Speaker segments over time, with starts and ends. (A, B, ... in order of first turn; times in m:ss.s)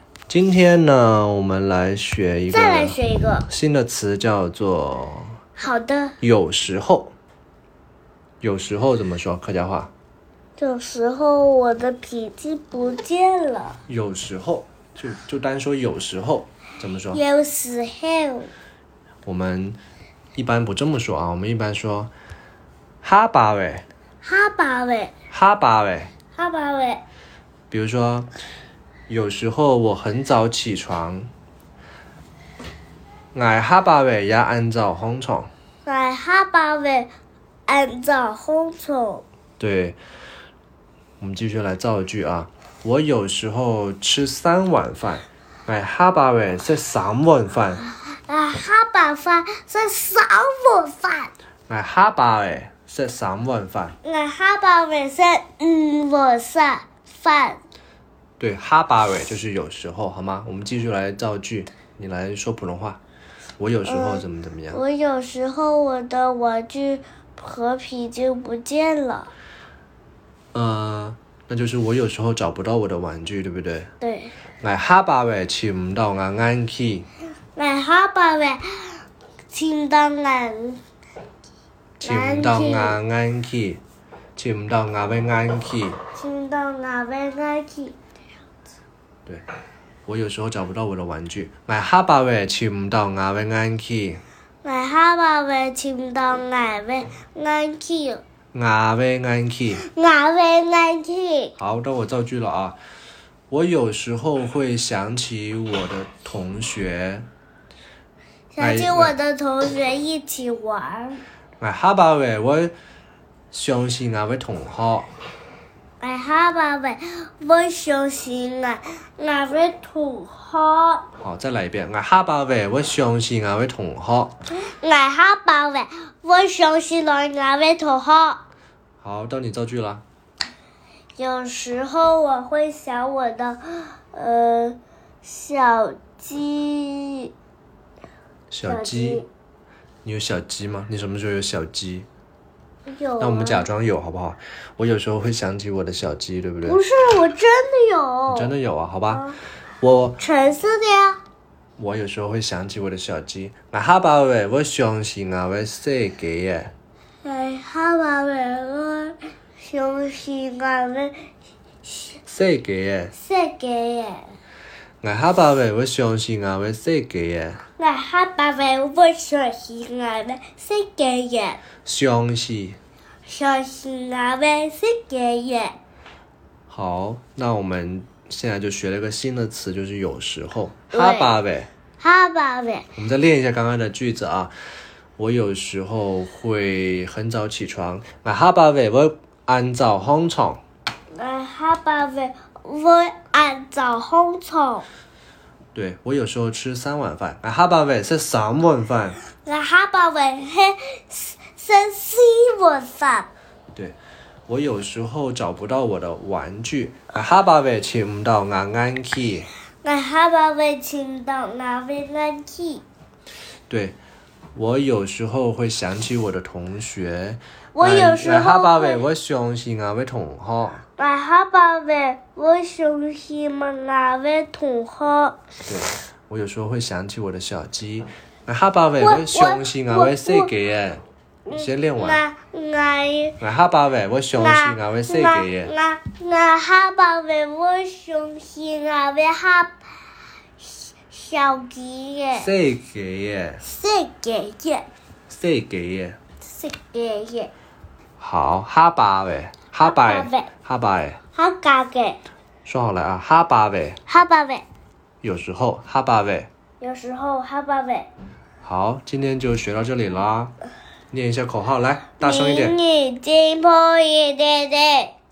0:00.3-0:05.4 A
0:02.5-0:03.5 B
0:05.6-0:06.2 B
0:06.2-0:07.1 A
0:08.4-0:09.9 A
0:10.6-0:13.8 B
0:13.9-0:17.2 A
0:17.1-0:18.5 B
0:19.2-0:19.8 A
0:20.3-0:22.1 A
0:23.0-0:23.8 A
0:24.2-0:25.1 B
0:25.3-0:26.1 A
0:26.3-0:27.0 B
0:27.7-0:28.3 A
0:29.1-0:31.3 A
0:33.3-0:35.5 A
0:35.8-0:37.1 B
0:37.7-0:39.2 B
0:39.6-0:40.0 A
0:41.2-0:47.8 A
0:47.8-0:51.3 B
0:51.7-0:54.0 A
0:54.0-0:57.6 B
0:58.4-1:03.0 A
1:03.6-1:04.8 A
1:03.8-1:09.3 B
1:10.5-1:13.9 A
1:14.0-1:14.3 B
1:14.6-1:17.1 A
1:17.6-1:20.8 B
1:22.0-1:23.8 A
1:22.0-1:23.0 B
1:24.4-1:26.0 A
1:26.2-1:28.0 B
1:30.1-1:34.2 A
1:34.6-1:38.2 B
1:38.5-1:39.8 A
1:39.8-1:41.5 B
1:41.6-1:42.8 A
1:43.5-1:47.3 A
1:48.5-1:51.2 B
1:48.6-1:49.2 A
1:51.6-1:52.7 A
1:53.5-1:55.1 A
1:56.0-2:01.0 B
2:01.2-2:04.3 A
2:04.6-2:08.4 B
2:09.0-2:10.0 A
2:11.2-2:17.3 B
2:18.5-2:19.2 A
2:18.6-2:19.3 B
2:20.0-2:22.1 A
2:22.9-2:23.7 B
2:23.2-2:26.8 A
2:26.6-2:28.5 B
2:28.3-2:29.2 A
2:29.1-2:29.4 B
2:29.8-2:30.2 A
2:30.2-2:31.2 B
2:31.8-2:36.7 A
2:37.2-2:41.2 B
2:41.8-2:42.2 B
2:42.3-2:43.1 A
2:43.1-2:44.3 B
2:45.0-2:47.6 A
2:47.8-2:51.6 B
2:51.8-2:52.8 A
2:53.3-2:55.8 B
2:56.7-3:01.7 A
3:00.9-3:01.4 B
3:02.0-3:02.9 B
3:03.0-3:04.5 A
3:05.2-3:10.6 A
3:11.2-3:14.8 B
3:15.7-3:19.2 A
3:19.4-3:23.3 B
3:24.5-3:29.5 A
3:29.8-3:32.8 B
3:33.7-3:34.0 A
3:34.5-3:40.8 A
3:37.7-3:39.0 B
3:41.0-3:45.4 B
3:45.6-3:51.0 A
3:49.0-3:50.5 B
3:51.5-3:53.4 B
3:51.5-3:52.2 A
3:53.4-3:55.7 A
3:54.4-3:59.8 B
4:00.6-4:02.5 B
4:02.4-4:03.6 A
4:03.6-4:04.9 B
4:05.3-4:06.2 A
4:06.4-4:07.5 B
4:08.2-4:11.2 A
4:09.8-4:10.5 B
4:11.3-4:12.2 B
4:12.6-4:14.0 A
4:14.1-4:14.6 B
4:15.2-4:16.5 A
4:16.8-4:18.1 B
4:18.6-4:20.5 A
4:21.1-4:22.8 A
4:22.2-4:25.1 B